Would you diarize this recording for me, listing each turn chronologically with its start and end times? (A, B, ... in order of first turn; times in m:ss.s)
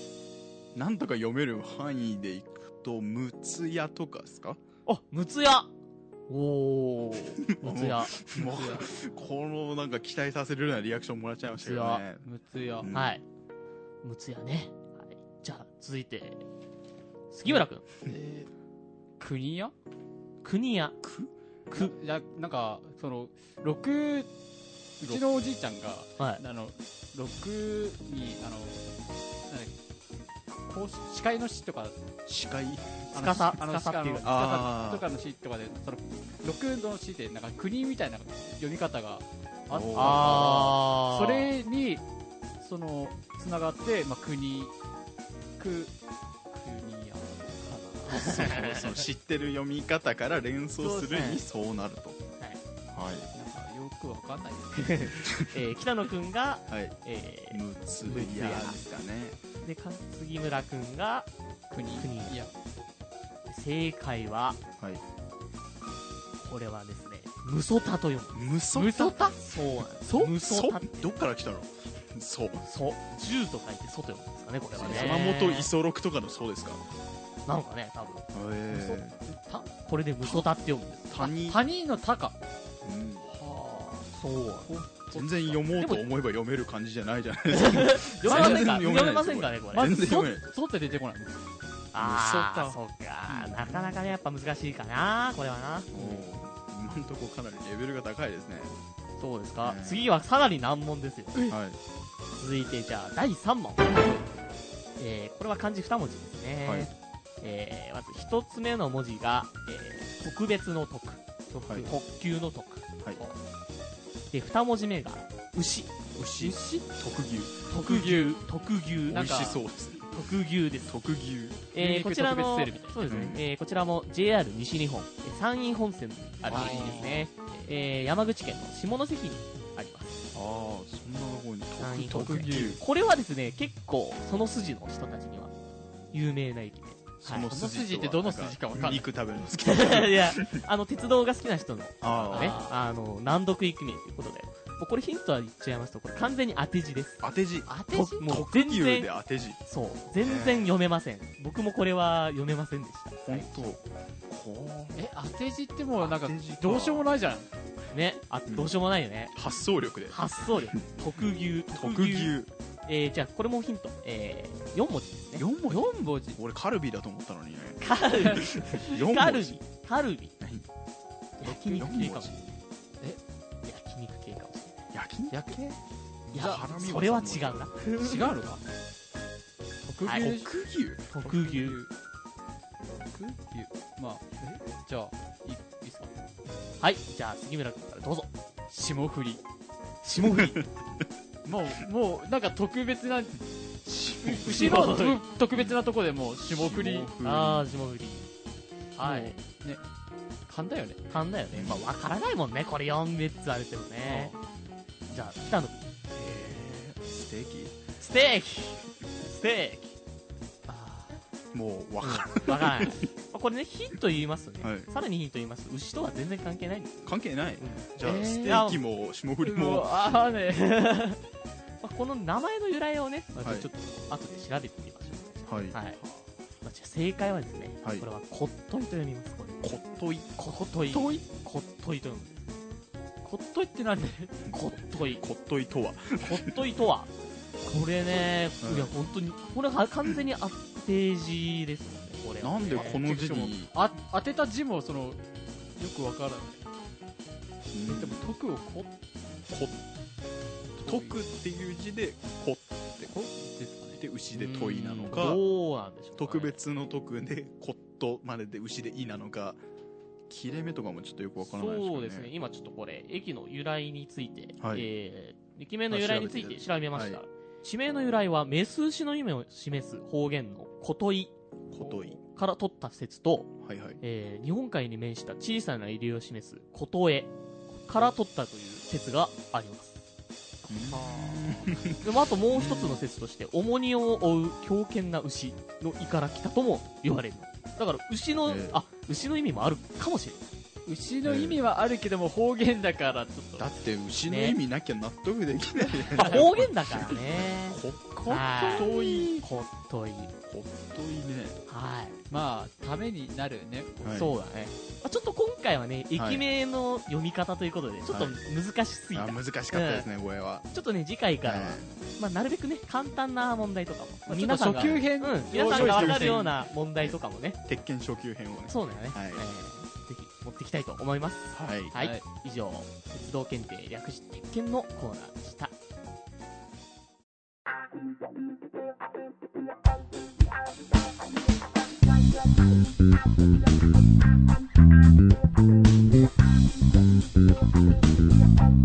0:00.7-0:04.6 A
0:04.8-0:05.7 B
0:06.3-0:08.2 B
0:07.4-0:12.2 A
0:08.4-0:08.9 C
0:11.6-0:12.0 B
0:12.2-0:12.9 C
0:12.8-0:13.2 A
0:12.9-0:13.2 B
0:14.0-0:16.4 B
0:17.3-0:17.8 B
0:18.1-0:18.5 C
0:19.2-0:19.7 C
0:20.4-0:21.0 B
0:21.0-0:21.3 A
0:21.7-0:24.3 C
0:25.0-0:28.8 C
0:29.5-0:29.7 C
0:30.5-0:32.0 C
0:32.3-0:33.1 A
0:33.1-0:42.0 C
0:33.1-0:34.4 B
0:34.2-0:35.0 A
0:39.7-0:40.7 A
0:39.9-0:41.5 B
0:42.6-0:44.7 C
0:45.6-0:45.9 C
0:46.5-0:48.1 C
0:48.1-0:49.0 B
0:48.1-0:52.2 A
0:50.8-0:51.4 B
0:52.9-0:53.3 A
0:53.3-0:55.1 C
0:54.8-0:58.8 B
0:55.2-0:55.6 A
0:56.7-0:57.0 A
0:57.5-0:59.4 A
0:59.6-1:01.3 B
1:01.7-1:02.5 C
1:02.0-1:02.4 B
1:03.5-1:04.6 B
1:06.4-1:08.4 B
1:08.3-1:09.1 A
1:08.7-1:09.4 C
1:09.4-1:11.1 B
1:10.0-1:10.3 C
1:10.4-1:12.6 A
1:12.6-1:15.7 B
1:14.7-1:16.8 A
1:14.8-1:15.1 C
1:17.4-1:18.2 B
1:18.3-1:19.1 A
1:18.7-1:19.7 C
1:19.8-1:21.3 B
1:21.1-1:21.6 A
1:21.4-1:22.3 C
1:22.8-1:23.2 A
1:23.2-1:24.1 C
1:24.1-1:24.7 B
1:24.6-1:25.6 C
1:25.1-1:30.5 A
1:25.8-1:26.0 B
1:27.5-1:29.9 B
1:28.2-1:28.7 C
1:29.7-1:31.4 C
1:31.9-1:36.2 B
1:31.9-1:34.1 A
1:35.9-1:38.7 A
1:39.2-1:41.4 B
1:39.6-1:40.1 A
1:41.5-1:41.8 A
1:42.4-1:44.0 B
1:45.0-1:51.2 B
1:46.6-1:46.9 A
1:51.5-1:51.9 C
1:51.6-1:51.9 A
1:51.8-1:52.8 B
1:54.3-1:56.0 B
1:56.1-1:57.6 A
1:56.4-1:56.9 C
1:57.7-1:59.5 B
1:57.7-1:58.4 C
1:59.1-2:00.1 A
1:59.1-1:59.6 C
2:00.1-2:00.9 B
2:00.9-2:01.6 A
2:01.7-2:10.2 B
2:01.8-2:03.0 C
2:03.1-2:03.4 A
2:06.5-2:07.7 C
2:10.3-2:12.8 A
2:11.8-2:15.5 B
2:12.1-2:12.8 C
2:16.1-2:17.5 B
2:17.2-2:20.6 A
2:17.4-2:19.0 C
2:19.6-2:27.2 B
2:22.0-2:22.6 A
2:22.3-2:22.7 C
2:27.2-2:29.6 A
2:27.7-2:28.2 C
2:27.9-2:29.1 B
2:29.6-2:33.8 B
2:30.2-2:30.7 A
2:33.2-2:35.1 A
2:34.9-2:37.5 C
2:36.0-2:37.1 A
2:37.9-2:39.4 B
2:39.3-2:42.5 A
2:40.1-2:42.3 B
2:42.8-2:45.4 B
2:45.4-2:49.6 A
2:45.7-2:46.4 C
2:47.8-2:50.3 B
2:48.2-2:48.4 C
2:50.4-2:50.6 A
2:51.4-2:52.5 B
2:51.4-2:52.4 A
2:53.6-2:54.9 B
2:54.9-2:55.6 A
2:55.3-2:55.8 C
2:56.3-2:58.2 B
2:56.3-2:57.6 A
2:58.0-2:58.6 C
2:59.8-3:00.5 C
3:00.0-3:00.3 B
3:00.1-3:01.1 A
3:01.1-3:01.8 B
3:01.2-3:01.9 C
3:02.9-3:06.1 C
3:06.8-3:08.3 B
3:08.7-3:09.4 C
3:10.0-3:10.6 B
3:10.2-3:10.7 A
3:11.4-3:17.1 C
3:14.0-3:14.8 A
3:14.4-3:15.2 B
3:16.5-3:17.7 A
3:17.2-3:18.3 B
3:19.0-3:19.4 B
3:19.0-3:19.8 C
3:20.5-3:21.0 C
3:21.1-3:24.3 B
3:21.5-3:21.9 A
3:24.0-3:24.4 C
3:25.1-3:25.8 B
3:26.1-3:27.8 A
3:28.0-3:30.0 B
3:30.7-3:31.2 C
3:31.5-3:33.1 A
3:32.0-3:38.8 B
3:34.6-3:34.9 A
3:37.0-3:39.9 A
3:38.0-3:38.5 C
3:39.4-3:41.2 C
3:41.8-3:46.0 B
3:43.4-3:43.7 A
3:45.4-3:45.8 A
3:46.6-3:49.6 B
3:49.6-3:50.3 A
3:50.4-3:52.5 B
3:53.2-3:54.4 C
3:54.5-3:56.5 A
3:54.5-3:55.2 B
3:56.2-3:57.1 B
3:57.6-4:03.0 B
3:58.6-3:58.9 A
4:02.4-4:03.7 A
4:02.7-4:05.2 C
4:05.8-4:06.6 C
4:07.7-4:08.2 A
4:07.9-4:08.9 C
4:09.5-4:09.8 A
4:10.8-4:11.2 C
4:10.8-4:13.1 A
4:13.0-4:14.0 C
4:14.0-4:15.4 A
4:14.3-4:16.6 B
4:16.2-4:19.6 A
4:20.3-4:22.3 A
4:21.4-4:40.0 B
4:24.6-4:24.9 A
4:25.9-4:27.2 A
4:31.7-4:32.2 A
4:33.6-4:34.0 A
4:40.7-4:43.0 A
4:40.9-4:50.4 B
4:48.4-4:48.8 A
4:50.8-4:53.7 C
4:51.2-4:51.6 A
4:53.6-4:59.4 A
4:54.3-4:54.6 B
4:56.2-4:56.5 C
4:56.2-5:00.3 B
4:58.6-4:58.9 C
5:00.5-5:01.6 A
5:01.7-5:02.1 B
5:02.3-5:04.2 C
5:04.0-5:04.3 A
5:04.1-5:10.0 B
5:06.1-5:06.4 A
5:08.1-5:08.4 A
5:09.1-5:10.6 A
5:10.7-5:17.6 B
5:11.4-5:11.9 A
5:14.3-5:16.5 C
5:14.7-5:15.1 A
5:15.7-5:19.4 A
5:18.7-5:25.7 B
5:21.5-5:22.0 A
5:22.0-5:22.2 C